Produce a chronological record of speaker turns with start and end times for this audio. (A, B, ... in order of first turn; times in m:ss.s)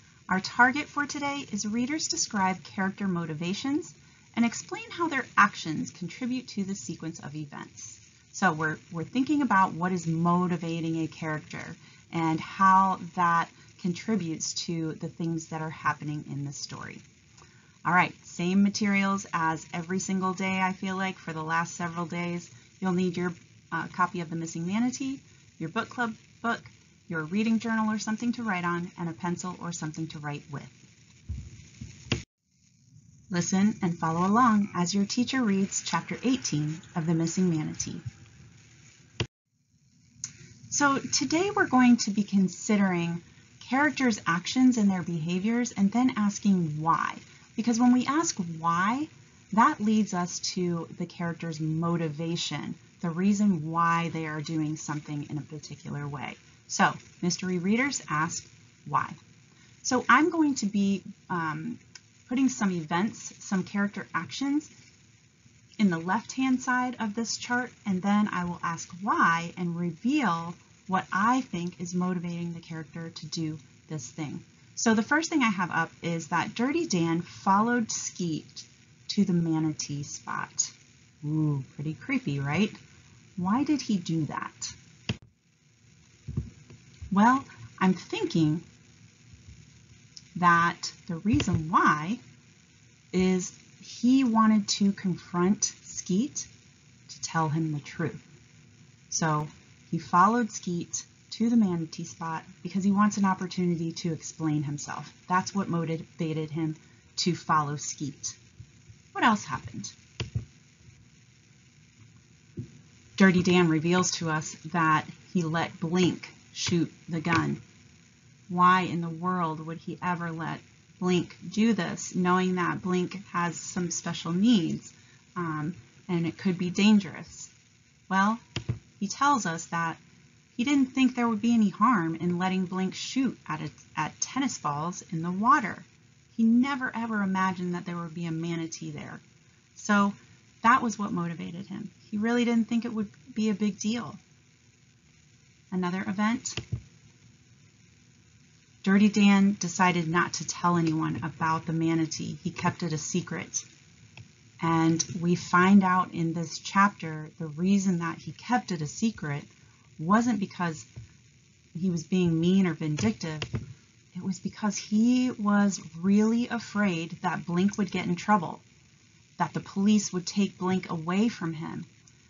0:00.3-0:17.0 A
0:17.8-0:30.8 A
0:33.3-0:38.0 A
0:40.7-0:59.2 A
0:59.8-1:04.7 A
1:05.8-1:22.8 A
1:23.4-1:24.7 A
1:27.1-1:28.6 A
1:30.3-1:32.2 A
1:33.1-1:36.5 A
1:37.1-1:38.2 A
1:39.1-1:48.4 A
1:49.1-1:49.9 A
1:53.2-1:57.6 A
1:58.5-2:07.5 A
2:08.1-2:08.4 A
2:09.0-2:10.0 A
2:10.5-2:19.2 A
2:19.7-2:24.2 A
2:25.7-2:26.6 A
2:28.8-2:33.6 A
2:34.6-2:40.9 A
2:41.7-2:43.5 A
2:44.1-2:48.6 A
2:49.4-2:51.9 A